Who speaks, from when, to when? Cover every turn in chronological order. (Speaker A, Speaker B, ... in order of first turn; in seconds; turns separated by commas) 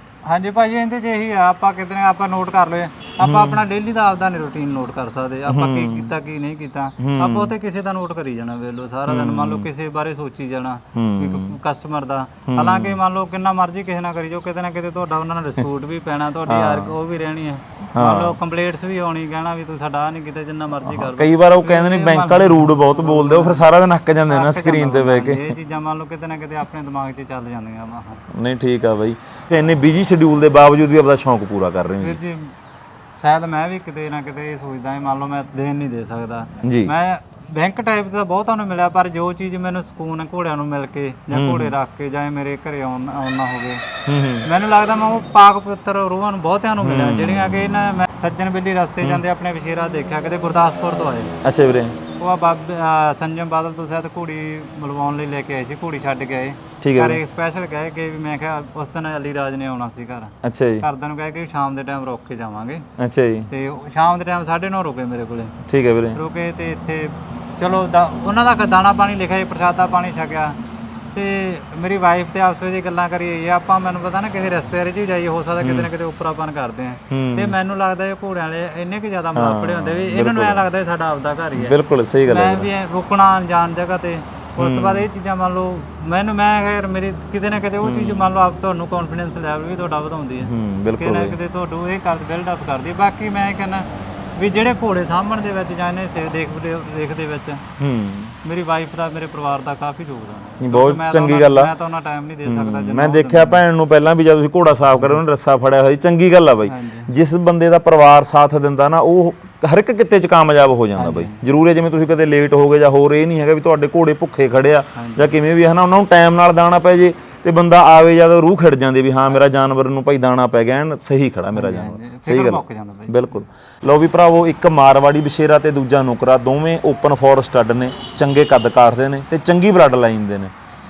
Speaker A: 0.2-23.7, Speaker B: 3.2-3.6, Speaker B: 5.5-6.1, Speaker B: 7.0-7.5, Speaker B: 9.1-9.7, Speaker B: 10.9-11.5, Speaker B: 12.5-13.0, Speaker B: 16.4-16.9, Speaker B: 17.9-18.4, Speaker B: 20.8-25.5, Speaker A: 24.3-28.2, Speaker B: 28.3-32.2, Speaker A: 32.0-32.5, Speaker A: 33.2-43.8, Speaker B: 36.6-36.9, Speaker B: 41.3-41.7, Speaker B: 44.1-44.5, Speaker A: 44.4-51.3, Speaker B: 46.8-47.7, Speaker B: 51.4-52.0, Speaker A: 52.2-62.9, Speaker B: 56.8-57.2, Speaker B: 60.4-60.9, Speaker B: 63.0-63.5, Speaker A: 63.5-65.5, Speaker B: 65.7-66.2, Speaker A: 66.1-70.6, Speaker A: 71.1-97.6, Speaker B: 75.6-75.9, Speaker B: 77.1-77.6, Speaker B: 79.3-80.7, Speaker B: 81.5-82.7, Speaker B: 84.6-85.1, Speaker B: 87.8-88.3, Speaker B: 90.4-91.4, Speaker B: 97.8-98.3, Speaker A: 98.4-103.6, Speaker B: 100.6-101.7, Speaker B: 102.4-130.5, Speaker A: 104.9-105.2, Speaker A: 106.7-107.1, Speaker A: 111.0-111.4, Speaker A: 115.0-115.4, Speaker A: 121.5-123.3